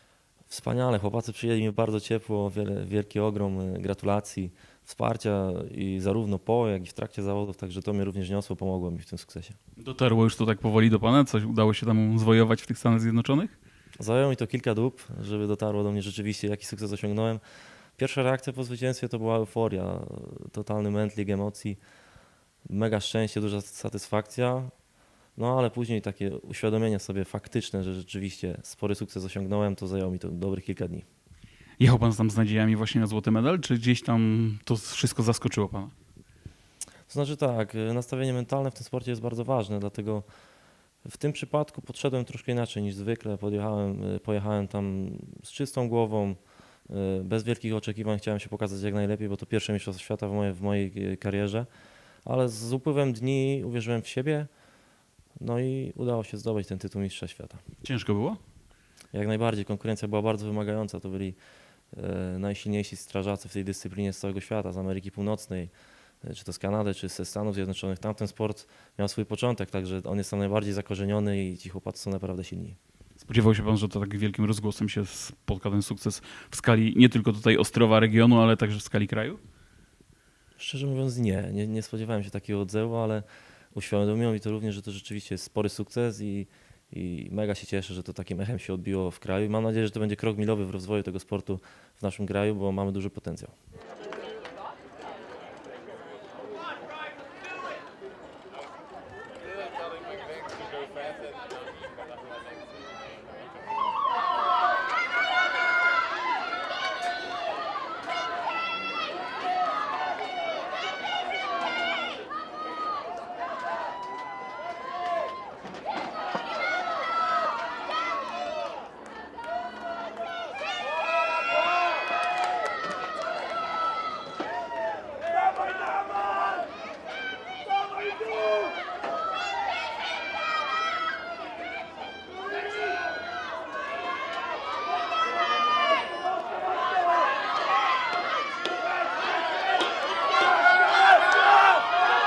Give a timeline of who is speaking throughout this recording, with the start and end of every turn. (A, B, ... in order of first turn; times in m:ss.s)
0:00.5-0:09.6 A
0:09.8-0:13.5 B
0:14.0-0:17.4 A
0:18.0-0:21.8 A
0:22.7-0:24.7 A
0:25.4-0:31.0 A
0:31.8-0:35.9 B
0:37.1-0:40.2 A
0:41.0-0:51.7 A
0:52.2-0:54.5 A
0:55.4-0:57.6 A
0:57.8-0:58.4 B
0:59.1-1:01.4 A
1:01.9-1:12.8 A
1:13.2-1:19.4 B
1:20.6-1:33.5 A